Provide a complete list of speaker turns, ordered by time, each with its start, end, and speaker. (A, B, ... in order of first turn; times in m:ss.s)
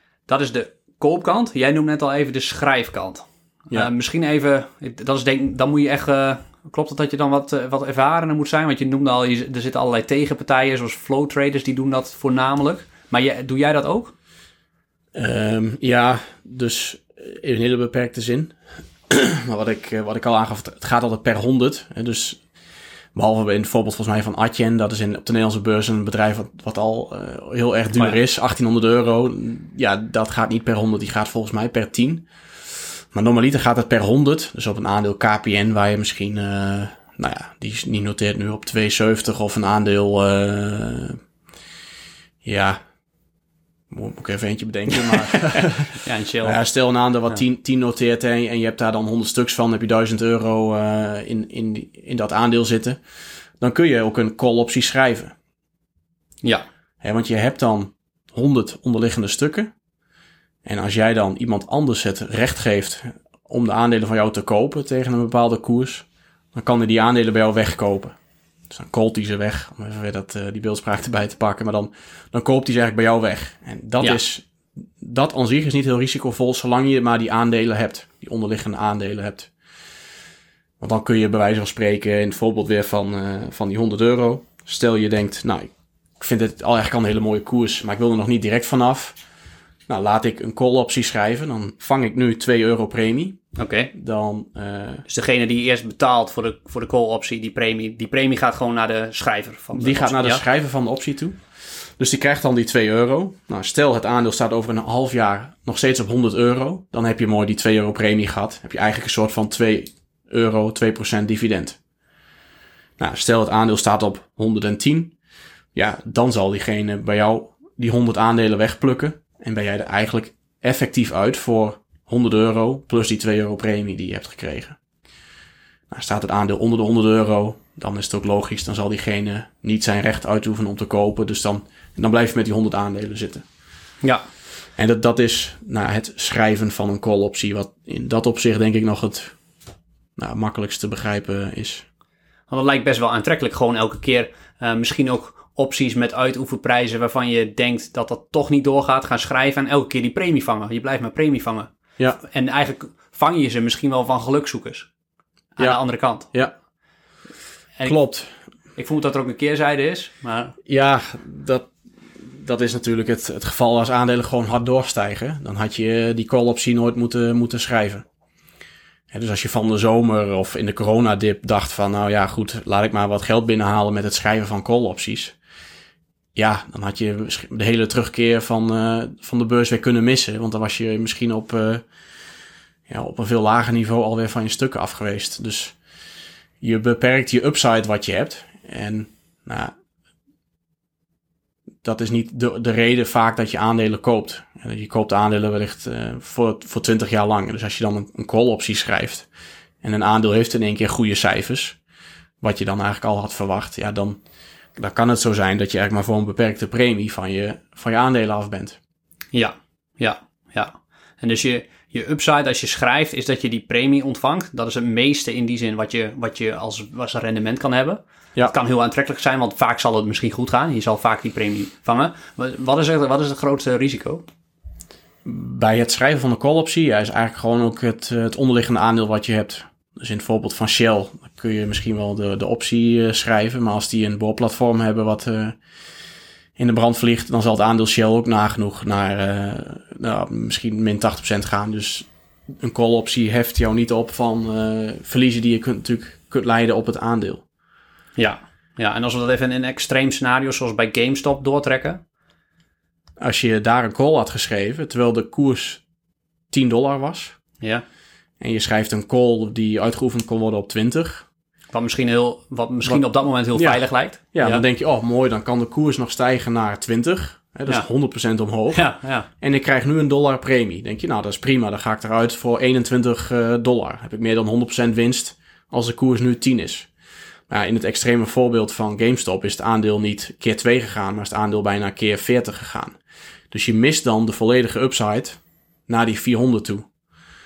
0:00.3-0:14.1 A
0:15.1-0:18.6 B
0:19.1-0:22.4 B
0:23.1-0:32.2 B
0:33.1-0:41.2 B
0:42.4-0:42.8 B
0:43.9-0:45.9 B
0:45.0-0:46.6 A
0:46.4-0:53.0 B
0:53.6-0:55.3 B
0:57.0-0:59.7 B
1:00.6-1:08.1 B
1:08.7-1:19.5 B
1:20.8-1:25.7 B
1:26.2-1:29.2 B
1:29.9-1:33.4 B
1:33.6-1:33.9 A
1:33.9-1:35.0 B
1:35.1-1:40.4 A
1:39.7-1:41.4 B
1:42.0-1:51.8 B
1:53.0-1:55.1 B
1:55.7-2:04.8 B
2:05.9-2:13.4 B
2:14.8-2:19.3 B
2:20.2-2:21.8 B
2:22.5-2:31.7 A
2:32.2-2:34.9 A
2:35.6-2:36.3 A
2:37.8-2:38.3 B
2:38.8-2:40.5 A
2:40.6-2:48.0 B
2:49.1-2:55.3 B
2:56.3-3:01.8 B
3:02.9-3:05.7 B
3:06.6-3:09.7 B
3:11.8-3:19.3 B
3:19.8-3:21.8 B
3:22.4-3:24.2 B
3:24.8-3:28.8 B
3:29.3-3:44.2 A
3:45.2-3:55.6 B
3:56.6-4:07.4 B
4:08.2-4:12.0 A
4:13.2-4:15.8 B
4:16.5-4:17.4 B
4:18.4-4:21.2 B
4:21.7-4:24.6 A
4:23.5-4:28.8 B
4:28.7-4:29.3 A
4:29.4-4:36.9 B
4:37.5-4:43.0 B
4:43.5-4:46.9 B